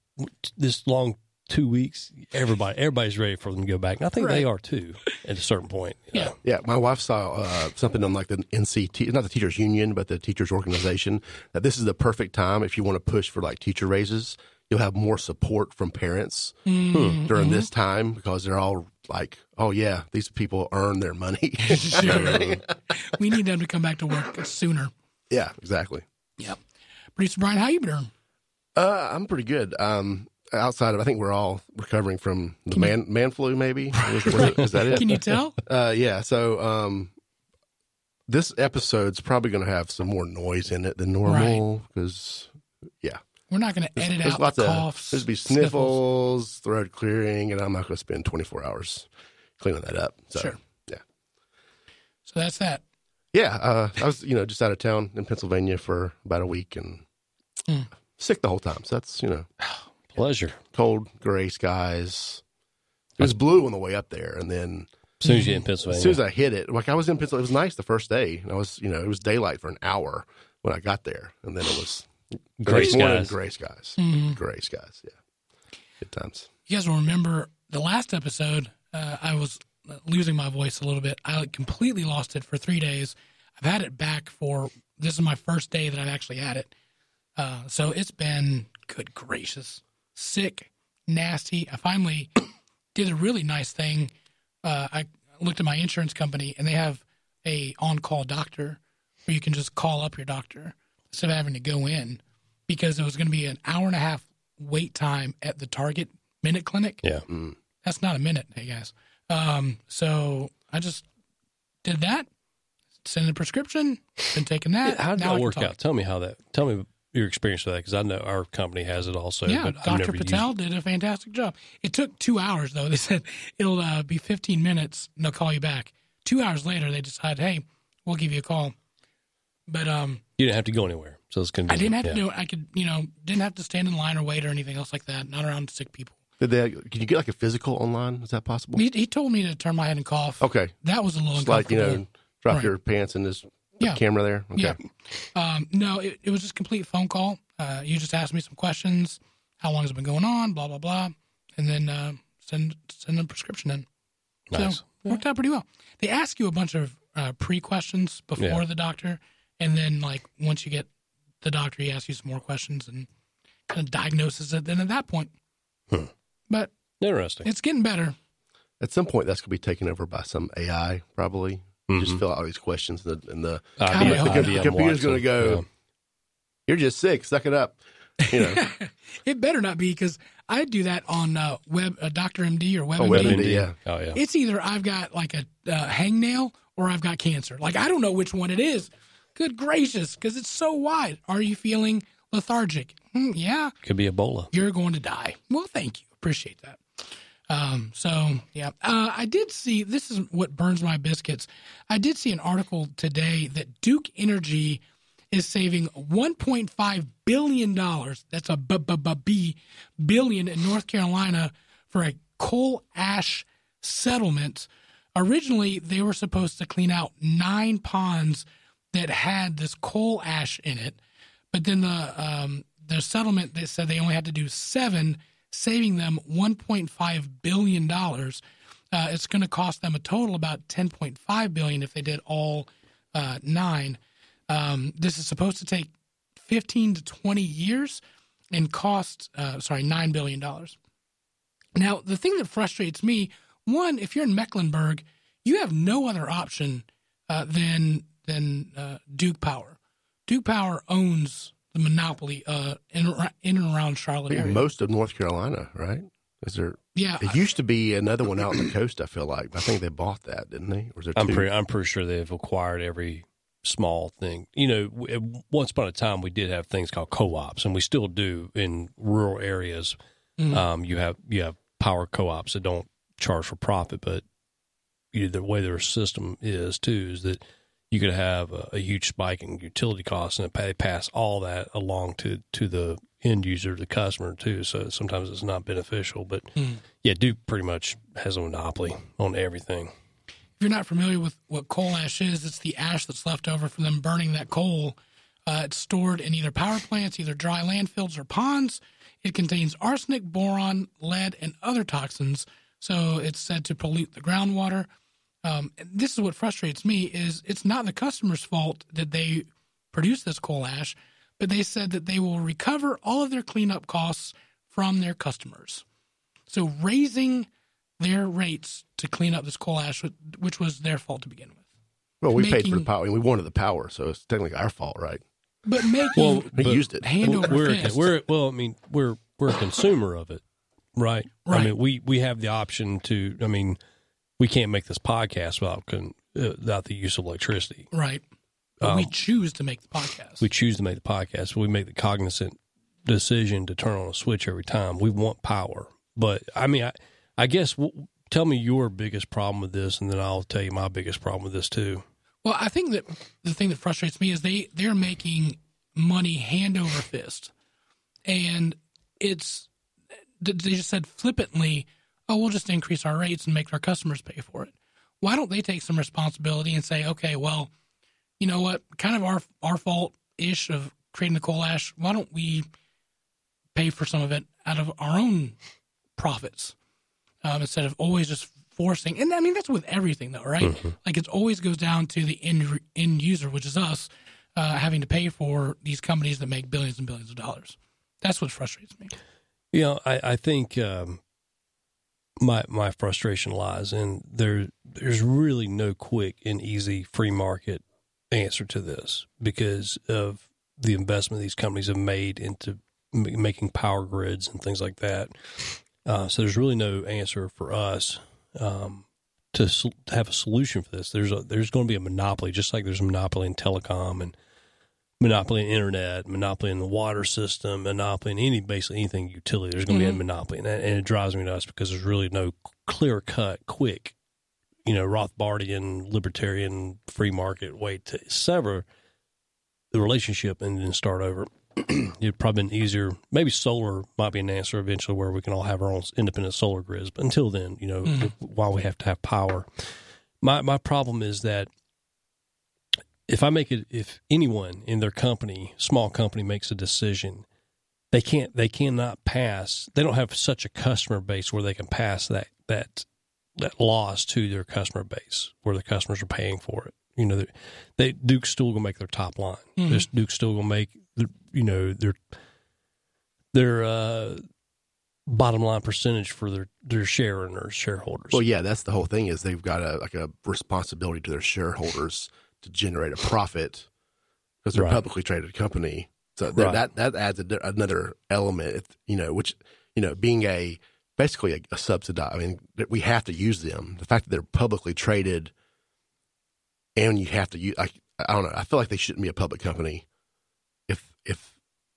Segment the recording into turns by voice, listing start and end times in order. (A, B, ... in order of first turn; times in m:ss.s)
0:00.2-0:06.3 A
0:04.2-0:04.4 B
0:06.4-0:22.7 C
0:16.6-0:17.7 B
0:16.9-0:17.2 A
0:21.6-0:24.9 B
0:22.0-0:22.5 A
0:25.3-0:26.0 C
0:27.2-0:28.1 B
0:28.7-0:37.1 C
0:33.9-0:35.6 B
0:38.3-0:42.5 C
0:41.2-0:41.6 B
0:43.5-0:46.0 B
0:44.0-0:49.1 C
0:49.6-0:51.0 C
0:52.2-0:52.8 B
0:53.3-0:57.0 C
0:58.2-0:59.5 C
1:00.1-1:00.6 A
1:00.7-1:02.4 C
1:03.2-1:04.9 C
1:05.2-1:06.2 A
1:05.2-1:05.6 B
1:05.8-1:12.1 C
1:12.6-1:13.4 A
1:12.6-1:15.1 C
1:14.0-1:14.4 B
1:16.0-1:16.5 C
1:16.7-1:26.7 B
1:27.4-1:32.3 B
1:32.9-1:34.1 B
1:34.6-1:47.0 B
1:47.3-1:47.5 C
1:47.8-1:51.0 B
1:51.8-1:52.3 B
1:53.0-1:55.7 B
1:54.8-2:00.5 A
1:59.5-2:08.7 B
2:09.7-2:10.2 B
2:10.4-2:12.2 A
2:11.7-2:16.2 B
2:16.4-2:18.8 C
2:18.7-2:22.7 B
2:20.4-2:20.7 C
2:21.3-2:24.8 C
2:25.3-2:33.8 B
2:34.5-2:35.2 A
2:34.5-2:40.9 B
2:41.4-2:43.1 B
2:43.7-2:45.3 B
2:47.0-2:47.5 A
2:47.4-2:48.2 B
2:48.8-2:55.6 C
2:51.9-2:52.2 A
2:53.8-2:55.6 A
2:53.9-2:54.6 B
2:56.7-2:58.6 C
2:58.2-3:03.6 B
3:03.0-3:03.7 C
3:03.0-3:04.2 A
3:04.1-3:13.7 B
3:13.8-3:14.5 A
3:14.5-3:16.8 B
3:17.5-3:41.0 B
3:41.5-3:55.9 B
3:56.4-3:58.0 B
3:58.5-4:00.8 B
4:01.8-4:14.6 B
4:14.3-4:21.4 C
4:16.9-4:17.4 B
4:21.2-4:29.9 A
4:30.4-4:30.6 B
4:30.5-4:34.2 A
4:35.1-4:37.4 A
4:37.9-4:49.9 A
4:50.6-5:04.9 B
5:05.4-5:15.8 B
5:16.5-5:17.5 B
5:18.0-5:21.6 B
5:22.2-5:25.2 C
5:22.3-5:22.9 B
5:25.6-5:28.1 B
5:26.2-5:30.4 A
5:26.5-5:27.4 C
5:31.0-5:33.8 A
5:31.4-5:31.7 B
5:34.4-5:37.9 A
5:37.9-5:38.2 B
5:38.8-5:40.4 B
5:38.8-5:39.1 A
5:40.4-5:52.0 A
5:52.4-5:57.5 B
5:58.3-5:59.7 B
6:00.4-6:07.7 B
6:08.4-6:12.6 B
6:13.7-6:15.6 B
6:16.2-6:16.7 B
6:17.4-6:29.1 B
6:20.6-6:20.9 A
6:29.7-6:31.2 A
6:32.4-6:54.3 A
6:55.2-7:04.1 A
6:59.9-7:00.2 B
7:04.8-7:08.8 A
7:09.9-7:19.7 A
7:18.0-7:18.3 B
7:20.4-7:21.7 A
7:23.3-7:27.4 A
7:28.1-7:33.0 A
7:33.6-7:42.2 A
7:39.8-7:40.0 B
7:43.5-7:44.4 A
7:45.3-7:48.4 A
7:48.3-7:53.9 C
7:54.6-8:05.5 C
7:54.7-7:55.0 A
7:56.5-7:56.8 A
8:07.0-8:10.0 C
8:10.9-8:11.5 C